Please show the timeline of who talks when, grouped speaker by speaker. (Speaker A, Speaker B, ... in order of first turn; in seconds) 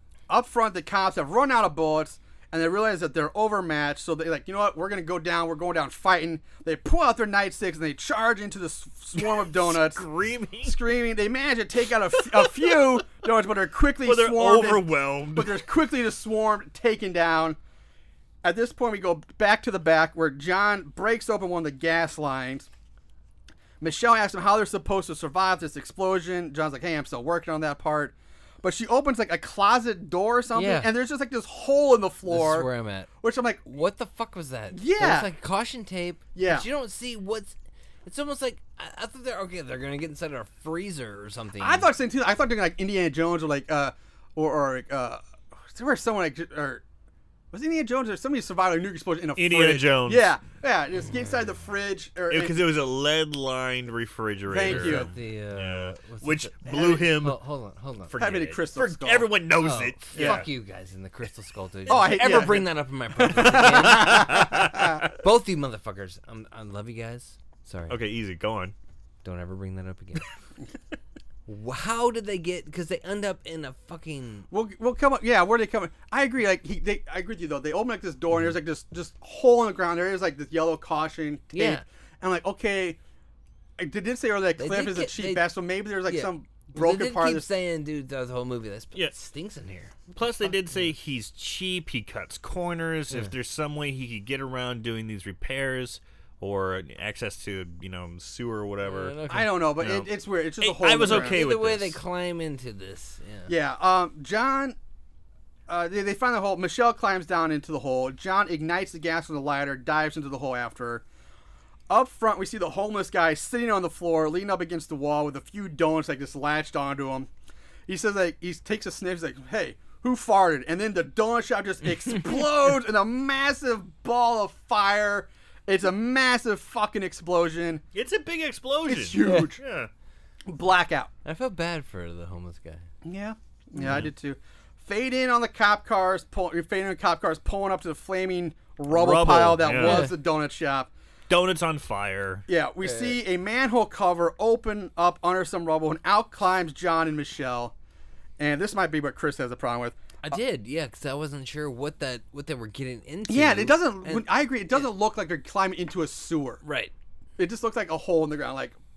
Speaker A: 0.3-10.1, 10.6-17.6, 18.4-22.7, 23.8-32.7, 33.2-33.6, 34.7-35.3, 36.4-36.7, 41.6-46.8, 47.5-52.6, 54.5-55.1, 58.2-59.3, 60.1-60.5, 61.9-65.1, 74.5-83.0, 83.8-87.5, 99.3-101.4, 103.5-104.8, 105.7-111.0, 111.9-117.3, 117.9-127.8, 128.9-129.6, 130.5-131.1, 133.1-140.9, 142.5-147.7, 148.4-150.4, 153.3-156.6, 157.4-158.8
Speaker B: 9.2-10.8, 12.1-12.8, 14.0-15.6, 49.4-50.3, 52.3-57.4, 58.1-60.5, 62.0-62.5, 63.4-65.0, 67.9-68.8, 90.1-99.2, 99.8-100.1, 100.6-102.0, 127.9-129.9, 138.9-140.1, 141.3-142.5
Speaker C: 30.6-30.9, 32.3-33.1, 33.7-37.5, 38.1-41.9, 54.6-58.5, 59.6-68.0, 69.2-70.3, 71.5-74.5, 81.5-81.8, 84.6-85.5, 86.1-90.2, 98.8-99.6, 101.0-103.5, 129.2-129.5, 131.2-132.9, 139.7-140.1, 142.8-143.2, 150.2-154.9, 156.6-156.9